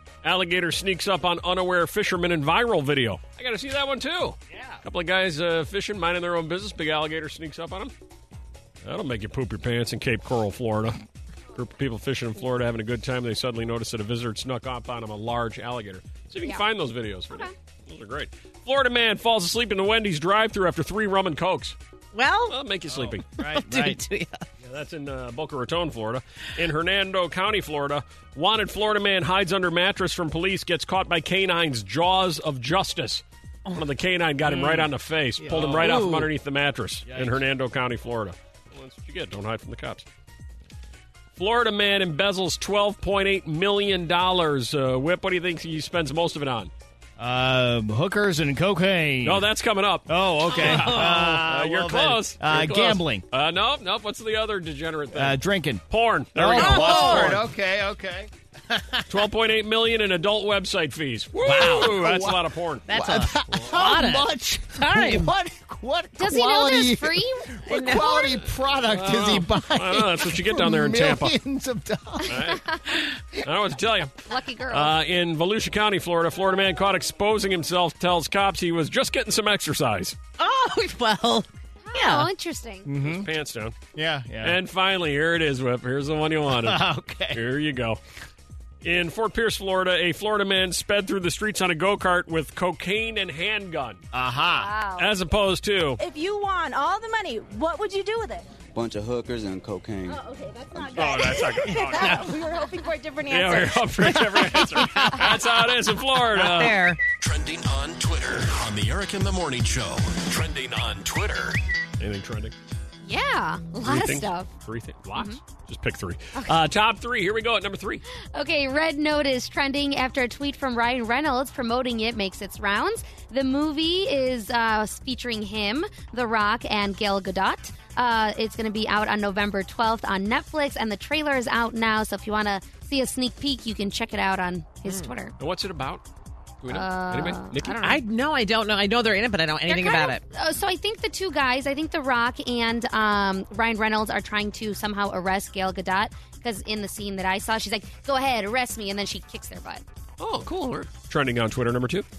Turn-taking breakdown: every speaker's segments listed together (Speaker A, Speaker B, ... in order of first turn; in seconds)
Speaker A: 0.2-7.9, 8.8-11.0, 11.5-21.8, 22.5-23.3, 24.6-40.0, 41.4-46.7, 49.2-57.4, 59.1-62.9, 68.9-71.3, 72.3-72.6, 73.4-74.1, 74.7-80.2, 83.0-83.8, 84.4-88.0, 88.8-94.0, 95.0-96.0, 100.9-102.3, 103.3-106.8, 112.0-112.5, 113.8-118.0, 135.4-136.0, 136.6-137.7, 150.2-152.1
Speaker B: 4.5-4.8, 22.9-24.0, 35.5-35.8, 37.1-37.4, 47.2-49.5, 50.1-53.2, 55.1-55.8, 56.3-59.1, 61.5-72.5, 82.8-83.3, 83.9-84.6, 86.5-87.4, 94.1-94.7
Speaker C: 22.1-22.6, 23.4-24.4, 34.5-34.9, 35.4-36.3, 50.5-51.2, 56.5-57.4, 61.4-62.0, 62.9-65.3, 67.7-68.2, 80.4-82.3, 101.6-102.4, 103.9-105.6, 106.3-107.0, 134.8-135.1, 137.8-140.2
Speaker D: 66.2-68.4, 72.5-72.8, 74.3-74.9, 81.9-82.9, 94.5-95.1, 113.0-114.5, 116.3-116.6, 118.3-135.3, 136.7-138.0, 139.7-149.8
Speaker E: 96.0-98.5, 100.1-101.2, 101.7-103.9
Speaker F: 98.7-101.5
Speaker G: 107.1-111.6